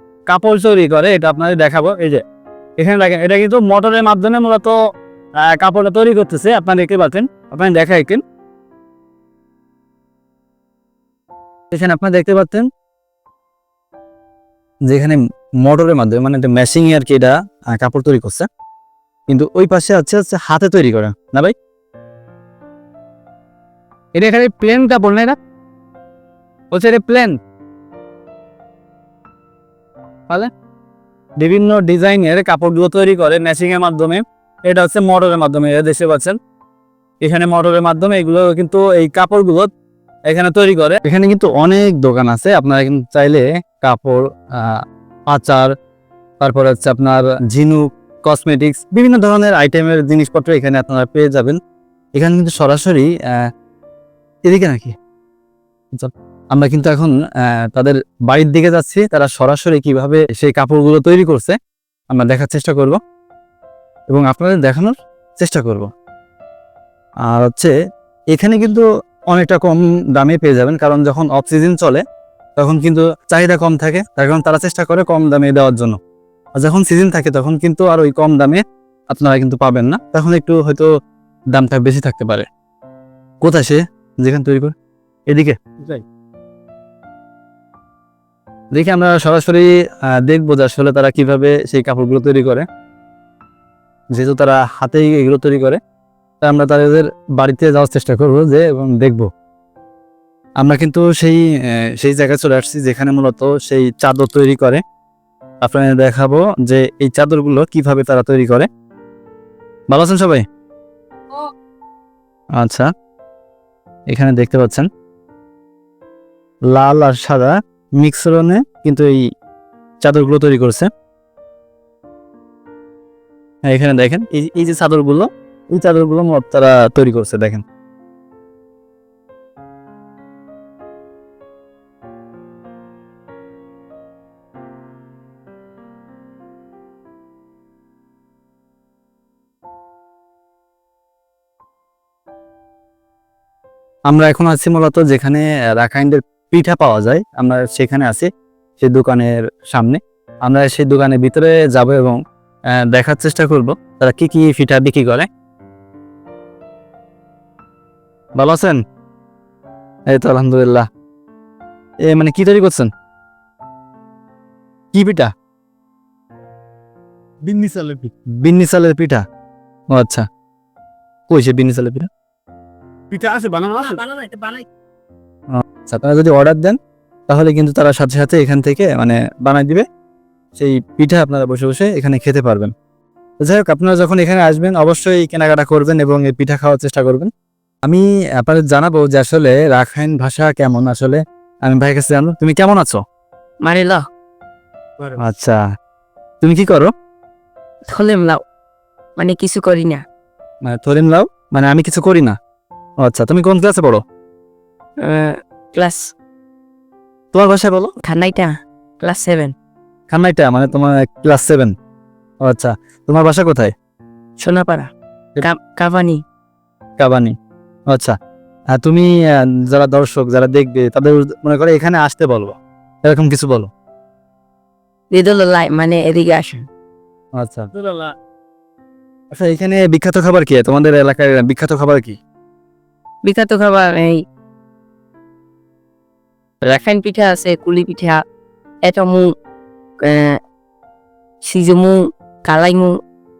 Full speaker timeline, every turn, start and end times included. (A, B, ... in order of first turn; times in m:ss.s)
0:00.3-0:02.2 A
0:02.8-0:04.8 A
0:05.4-0:08.2 A
0:11.7-0:12.7 A
0:14.9-0:18.5 A
0:19.3-0:21.5 A
0:24.1-0:25.4 A
0:26.7-0:27.4 A
0:31.4-0:36.4 A
0:37.2-0:39.7 A
0:40.3-0:44.8 A
0:45.3-0:45.7 A
0:46.4-0:51.6 A
0:52.1-0:53.5 A
0:54.5-0:54.9 A
0:55.9-1:01.6 A
1:02.1-1:03.0 A
1:04.1-1:05.9 A
1:07.2-1:07.7 A
1:08.3-1:12.0 A
1:12.6-1:16.0 A
1:16.6-1:20.9 A
1:21.5-1:22.5 A
1:23.4-1:24.7 A
1:25.3-1:26.0 A
1:28.7-1:32.6 A
1:34.1-1:35.8 A
1:36.4-1:39.3 A
1:40.6-1:44.8 A
1:45.6-1:48.7 A
1:49.9-1:50.4 A
1:52.6-1:52.9 A
1:54.1-1:54.9 A
1:56.7-1:59.2 A
2:00.0-2:00.9 A
2:03.6-2:07.6 A
2:24.1-2:28.3 A
2:28.8-2:32.2 A
2:32.7-2:35.3 A
2:38.4-2:38.8 A
2:40.1-2:40.9 A
2:42.0-2:42.9 A
2:44.9-2:45.3 A
2:47.4-2:48.1 B
2:48.3-2:49.2 A
2:49.9-2:50.2 A
2:51.3-2:52.1 A
2:53.1-2:54.6 B
2:55.5-2:56.8 A
2:57.3-2:59.8 A
3:00.6-3:02.7 A
3:03.4-3:07.3 A
3:07.8-3:13.0 A
3:13.6-3:14.0 C
3:15.2-3:15.6 A
3:16.4-3:16.9 A
3:17.9-3:18.4 C
3:19.2-3:20.0 C
3:20.6-3:22.4 A
3:23.0-3:24.0 A
3:25.0-3:26.1 C
3:27.3-3:27.9 A
3:28.0-3:29.5 C
3:30.1-3:31.7 A
3:32.4-3:33.7 A
3:34.4-3:36.2 C
3:37.0-3:37.3 A
3:37.9-3:38.1 A
3:38.7-3:43.7 A
3:45.1-3:46.6 C
3:47.4-3:47.7 A
3:47.8-3:48.1 B
3:49.3-3:52.2 A
3:53.2-3:54.2 C
3:56.6-3:58.2 C
3:58.9-3:59.2 C
4:00.0-4:00.4 C
4:01.5-4:02.9 C